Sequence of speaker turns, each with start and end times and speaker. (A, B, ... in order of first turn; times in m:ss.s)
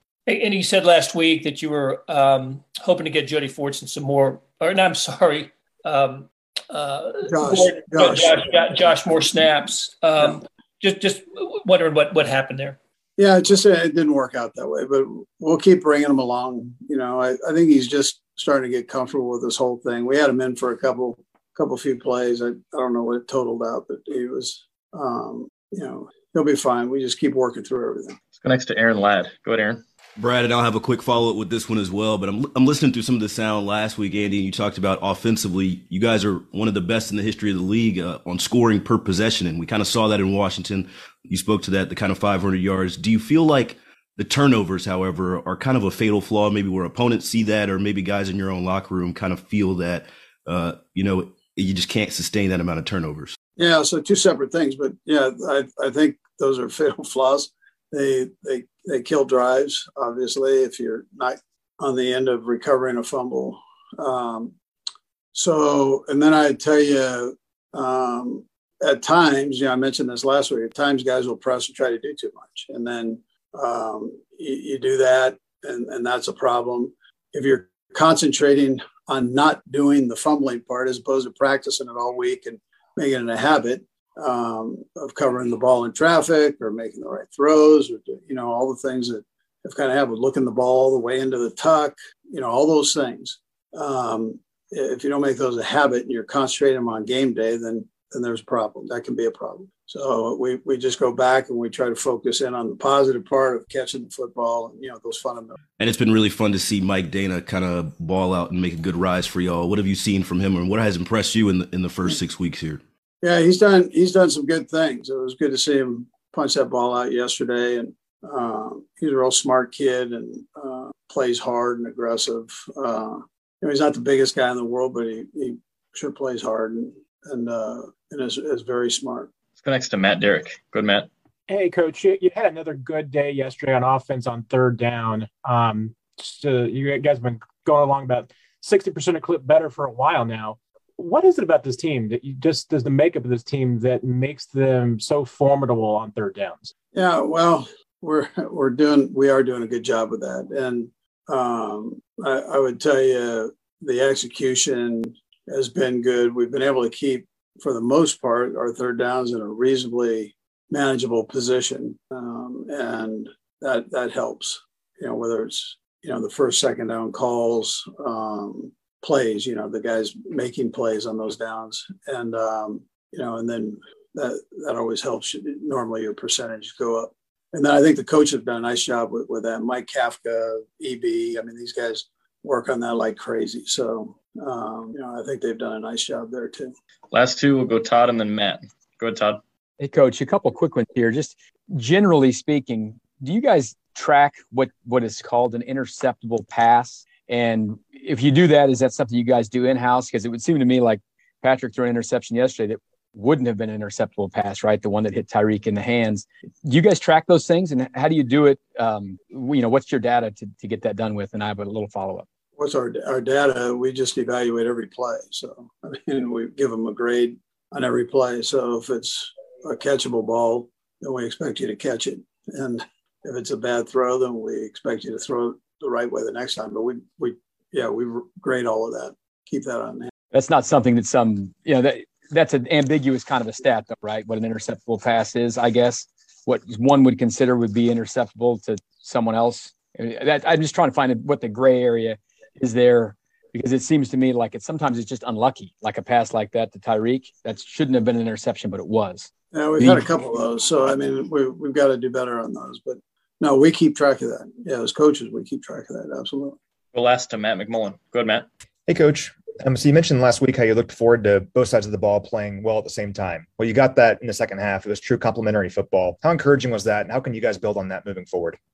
0:00.3-0:12.8 A
0:07.3-0:08.7 B
0:13.2-0:28.2 B
0:28.4-0:29.8 C
0:30.2-0:53.4 D
0:53.6-1:04.5 B
1:05.3-1:45.6 B
1:45.8-1:52.8 D
1:53.2-2:09.3 B
2:09.6-2:11.1 C
2:11.5-2:26.7 E
2:26.9-3:06.7 B
3:07.1-3:09.4 C
3:09.8-3:32.2 F
3:32.6-3:50.1 B
3:50.3-4:09.3 F
4:09.5-4:16.6 B
4:16.9-4:18.5 C
4:18.9-4:28.6 G